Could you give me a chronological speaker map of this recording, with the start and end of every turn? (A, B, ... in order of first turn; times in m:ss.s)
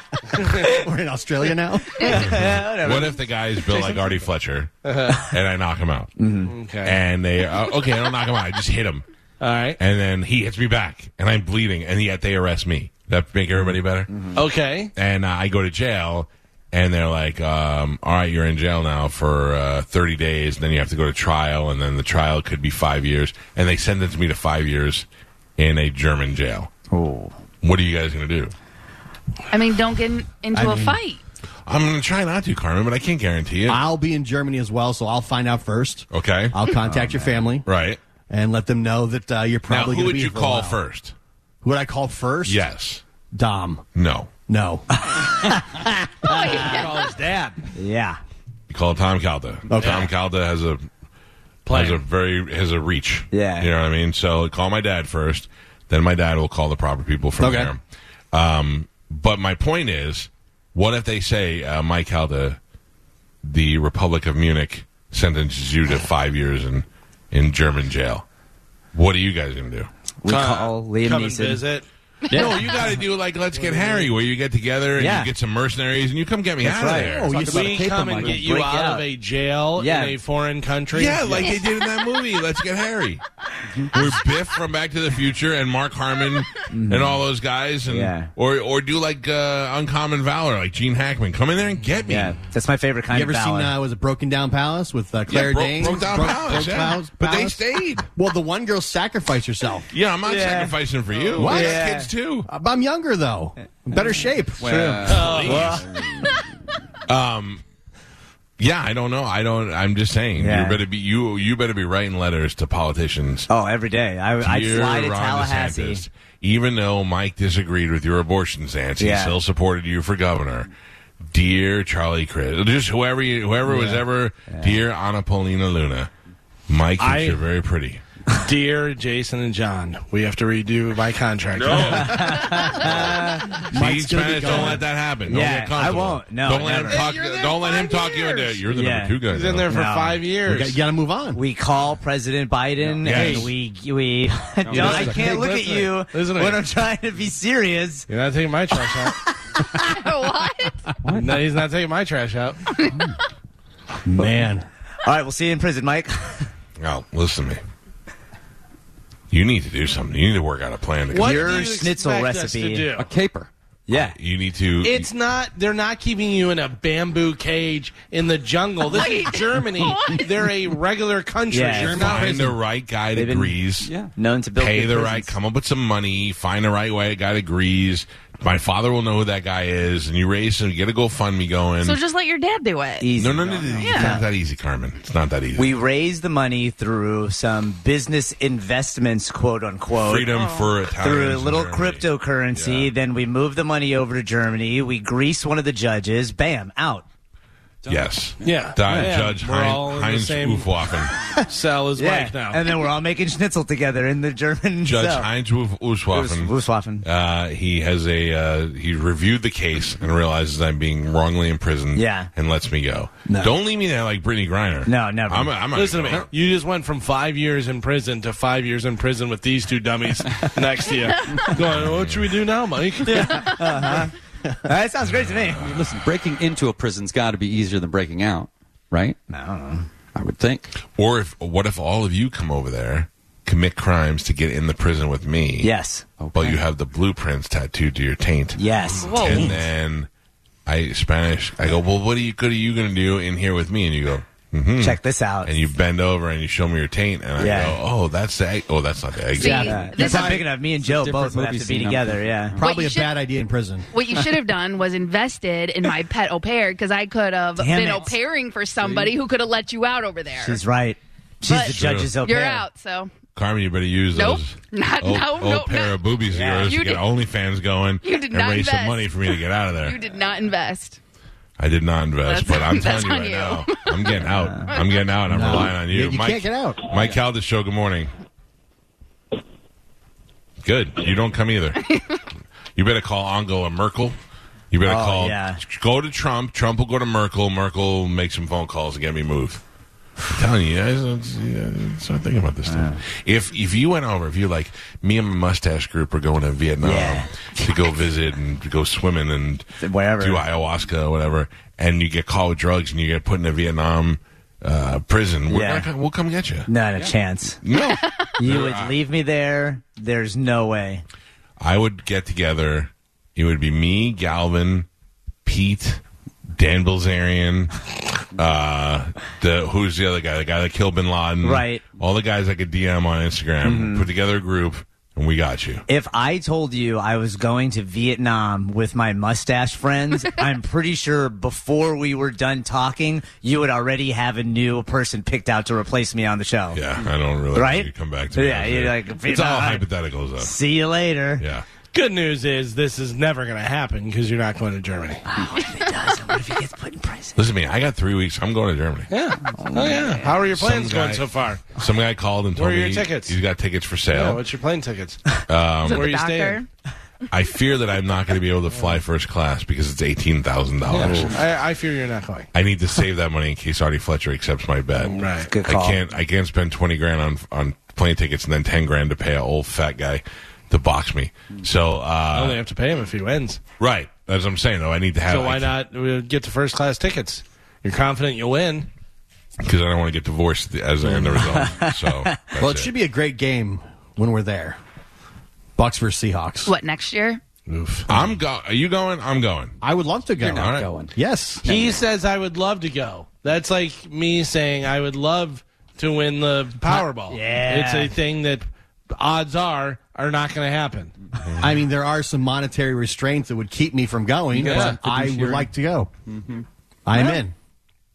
0:00.4-0:00.7 A
0:00.4-0:02.3 B
0:02.0-0:04.0 C
0:02.3-0:06.1 D
0:04.8-0:05.2 A
0:06.2-0:06.5 C
0:06.5-0:07.0 A
0:06.8-0:09.0 D
0:09.4-0:09.8 A
0:09.8-0:14.3 D
0:14.3-0:14.9 A
0:15.0-0:26.7 D
0:26.9-0:27.4 C
0:27.6-0:28.5 D
0:29.5-0:31.2 E
0:30.5-0:31.0 B
0:31.7-0:33.8 D
0:33.7-0:37.7 B
0:36.1-0:36.7 D
0:37.6-0:38.0 D
0:38.3-0:40.8 B
0:39.7-0:41.2 D
0:41.6-0:42.6 B
0:42.5-0:43.0 D
0:43.3-0:43.8 B
0:44.0-0:44.3 D
0:44.5-0:45.2 B
0:45.0-0:46.9 C
0:46.2-0:47.1 E
0:46.6-0:47.6 A
0:47.7-0:48.2 C
0:48.7-0:50.9 D
0:49.7-0:50.1 B
0:49.8-0:50.1 A
0:51.7-0:52.0 A
0:51.7-0:57.8 D
0:53.3-0:53.7 C
0:57.4-0:57.7 B
0:58.3-1:02.6 D
1:03.4-1:08.2 D
1:08.9-1:09.9 D
1:10.2-1:11.6 C
1:10.3-1:11.9 A
1:12.3-1:12.6 E
1:12.3-1:17.3 D
1:13.6-1:14.1 A
1:15.0-1:15.3 C
1:16.6-1:17.3 C
1:17.0-1:18.2 B
1:17.2-1:18.4 F
1:17.4-1:21.5 A
1:18.2-1:19.1 C
1:19.8-1:20.2 C
1:20.9-1:23.2 D
1:23.9-1:32.4 D
1:26.7-1:27.2 C
1:27.9-1:28.3 C
1:32.1-1:33.8 C
1:33.1-1:37.6 B
1:35.3-1:38.1 D
1:38.1-1:39.9 B
1:39.9-1:42.5 D
1:40.2-1:40.8 C
1:41.3-1:42.1 C
1:41.4-1:41.8 B
1:42.5-1:45.3 B
1:44.6-1:46.4 F
1:45.1-1:45.8 A
1:45.1-1:45.8 D
1:45.5-1:46.1 C
1:47.1-1:47.6 D
1:48.6-1:53.5 D
1:50.4-1:50.8 C
1:53.5-1:56.1 C
1:54.4-2:00.7 D
1:59.0-1:59.4 C
2:01.3-2:06.1 D
2:03.7-2:04.8 C
2:06.7-2:08.0 D
2:07.0-2:07.4 A
2:08.3-2:12.4 A
2:11.8-2:13.6 C
2:13.6-2:14.8 B
2:13.7-2:19.7 D
2:15.3-2:17.1 C
2:16.9-2:18.6 A
2:18.7-2:19.2 C
2:19.3-2:20.8 A
2:19.7-2:20.2 C
2:20.4-2:21.4 B
2:21.3-2:28.1 C
2:23.0-2:23.5 D
2:23.0-2:23.5 A
2:24.6-2:25.6 F
2:24.7-2:26.6 A
2:28.1-2:29.2 A
2:29.8-2:30.9 E
2:31.0-2:31.5 F
2:31.1-2:32.6 A
2:34.1-2:34.7 B
2:35.0-2:36.5 C
2:36.8-2:37.6 D
2:39.3-2:41.6 D
2:41.1-2:43.1 A
2:41.2-2:42.9 C
2:43.0-2:43.5 F
2:43.9-2:44.2 C
2:43.9-2:45.1 D
2:44.8-2:52.4 A
2:48.9-2:50.5 E
2:51.5-2:52.1 C
2:51.7-2:52.6 B
2:51.9-2:53.9 D
2:53.2-2:53.6 C
2:53.8-2:54.1 F
2:54.2-2:55.4 C
2:54.6-3:02.0 D
3:01.8-3:03.1 E
3:03.0-3:04.2 C
3:03.2-3:05.7 D
3:03.8-3:04.2 E
3:05.6-3:10.4 C
3:10.0-3:12.9 D
3:10.3-3:10.7 E
3:11.0-3:17.1 C
3:17.8-3:19.1 F
3:17.9-3:21.1 D
3:18.4-3:20.7 A
3:21.4-3:22.6 A
3:22.0-3:25.3 C
3:24.8-3:36.3 D
3:26.1-3:27.1 C
3:31.9-3:32.3 C
3:33.3-3:33.6 B
3:34.9-3:35.6 C
3:35.7-3:43.7 A
3:41.7-3:42.3 D
3:43.0-3:44.1 C
3:44.6-3:45.6 C
3:45.6-3:49.2 F
3:49.3-3:49.9 C
3:50.1-3:50.7 F
3:50.8-3:55.7 D
3:55.6-3:56.0 C
3:56.2-3:56.6 F
3:56.3-4:00.1 D
3:58.6-3:59.5 C
3:59.0-3:59.5 E
4:00.7-4:09.8 D
4:04.8-4:05.5 C
4:07.4-4:07.8 C
4:09.3-4:10.4 E
4:09.4-4:12.6 C
4:09.9-4:10.5 B
4:10.7-4:12.7 F
4:12.6-4:13.1 E
4:12.6-4:13.9 B
4:13.9-4:20.6 E
4:17.6-4:18.1 C
4:18.8-4:19.1 F
4:20.4-4:22.6 C
4:21.4-4:23.1 E
4:21.6-4:22.2 D
4:23.4-4:30.0 D
4:24.1-4:26.0 E
4:26.3-4:26.7 C
4:26.6-4:27.1 E
4:28.0-4:31.0 E
4:31.6-4:38.1 D
4:32.3-4:35.0 E
4:34.2-4:34.7 C
4:35.3-4:36.9 B
4:40.6-4:41.8 D
4:42.8-4:44.2 D
4:44.7-4:49.6 D
4:44.8-4:45.6 C
4:50.3-4:59.7 D
4:52.7-4:53.0 C
4:56.8-4:57.3 C
4:59.8-5:00.5 C
5:00.2-5:06.7 D
5:05.5-5:05.9 C
5:06.7-5:07.6 C
5:07.6-5:09.0 D
5:08.4-5:11.0 C
5:11.6-5:14.9 D
5:15.4-5:16.0 D
5:16.5-5:25.8 D
5:21.4-5:21.8 C
5:23.6-5:24.1 C
5:25.9-5:36.8 C
5:36.7-5:40.5 D
5:37.5-5:39.9 C
5:40.4-5:41.4 C
5:41.4-5:41.7 D
5:41.9-5:45.2 A
5:45.3-5:47.4 C
5:47.4-5:49.1 D
5:49.1-5:51.6 A
5:49.6-5:50.2 C
5:50.5-5:51.2 D
5:51.8-5:54.4 D
5:52.6-5:53.4 A
5:54.1-5:55.3 A
5:55.5-5:56.1 D
5:55.8-5:56.6 A
5:55.8-5:56.7 E
5:57.3-6:01.4 D
6:00.9-6:02.5 A
6:02.5-6:12.6 D
6:05.1-6:05.5 A
6:05.5-6:06.0 C
6:12.3-6:13.6 A
6:13.8-6:15.7 D
6:15.3-6:18.9 A
6:19.6-6:22.9 D
6:21.1-6:22.3 C
6:22.6-6:24.8 B
6:25.8-6:26.7 B
6:26.6-6:27.4 E
6:27.7-6:28.1 A
6:28.1-6:29.8 D
6:29.8-6:31.6 B
6:30.4-6:30.9 D
6:30.4-6:31.1 F
6:31.6-6:41.1 A
6:37.3-6:38.1 C
6:41.6-6:46.1 B
6:44.6-6:45.7 F
6:44.6-6:45.0 A
6:46.3-6:46.6 F
6:47.1-6:47.6 B